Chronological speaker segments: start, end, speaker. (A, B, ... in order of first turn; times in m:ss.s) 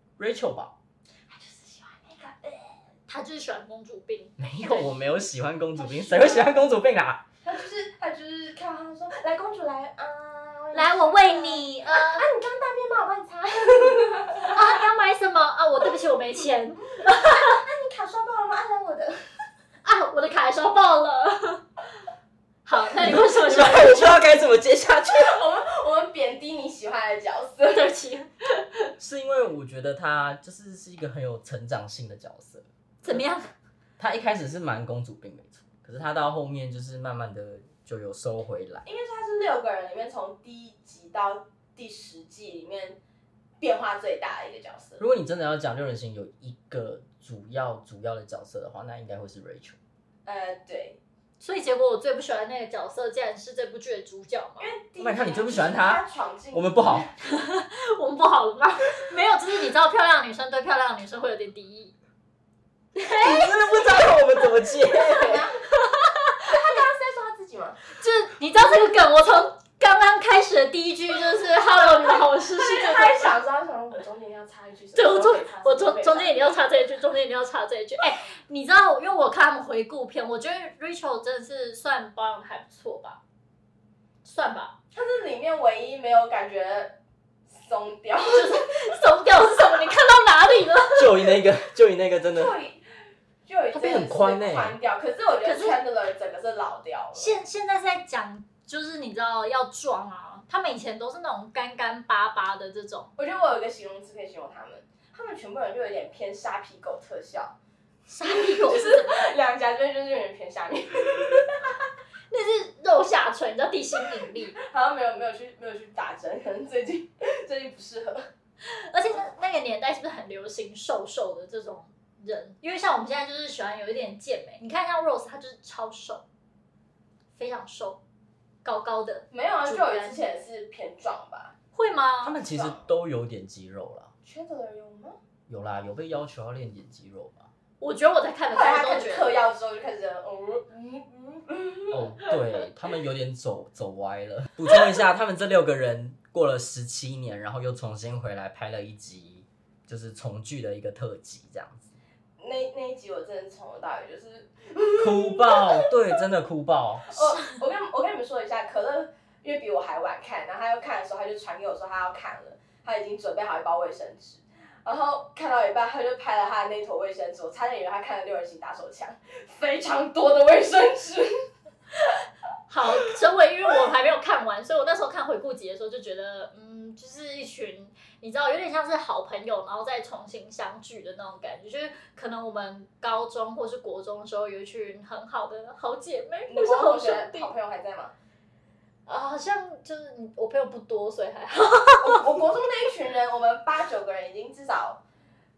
0:00.2-0:00.7 A
0:01.3-0:02.8 B
0:03.1-0:05.0 C
0:04.4-0:07.2 A
0:05.8-0:06.5 C
0:06.1-0:06.4 B
0:07.4-0:14.7 B
0:10.7-0:12.2 C
0:14.4-0:17.6 C
0:17.3-0:19.2 B
0:19.8-0:21.6 C
0:22.6-0:24.2 C
0:23.0-0:25.4 A
0:25.1-0:27.9 B
0:27.7-0:28.3 C
0:29.0-0:33.2 A
0:33.0-0:33.5 C
0:34.0-0:38.8 A
0:38.8-0:43.0 B
0:43.6-0:45.0 B
0:45.0-0:49.8 A
0:50.2-0:51.0 B
0:51.4-0:54.7 C
0:54.6-0:57.1 B
0:55.0-0:57.1 A
0:57.2-1:01.9 C
1:02.9-1:04.1 C
1:03.2-1:05.5 A
1:04.9-1:05.6 B
1:05.7-1:06.5 C
1:06.4-1:07.8 B
1:08.0-1:13.3 C
1:11.8-1:16.6 B
1:14.9-1:23.2 C
1:24.2-1:24.7 C
1:24.9-1:27.0 B
1:27.6-1:28.7 B
1:28.3-1:31.1 C
1:31.0-1:32.5 A
1:32.2-1:32.8 B
1:33.4-1:37.3 B
1:33.7-1:34.8 A
1:35.4-1:35.8 C
1:37.1-1:43.1 C
1:43.2-1:47.5 B
1:48.1-1:49.3 C
1:48.2-1:51.7 B
1:52.3-1:54.6 C
1:54.6-1:58.2 B
1:58.7-2:06.2 C
2:07.4-2:08.0 C
2:08.6-2:10.2 C
2:09.3-2:11.5 B
2:11.7-2:12.4 C
2:12.2-2:14.1 A
2:12.5-2:12.8 B
2:14.2-2:15.2 B
2:15.5-2:17.5 A
2:17.8-2:19.3 C
2:18.5-2:22.7 B
2:21.9-2:32.0 A
2:32.4-2:35.9 B
2:35.0-2:37.1 A
2:37.1-2:51.3 B
2:37.1-2:37.6 C
2:52.7-3:07.5 C
3:06.5-3:08.1 B
3:09.0-3:12.2 C
3:12.0-3:15.0 B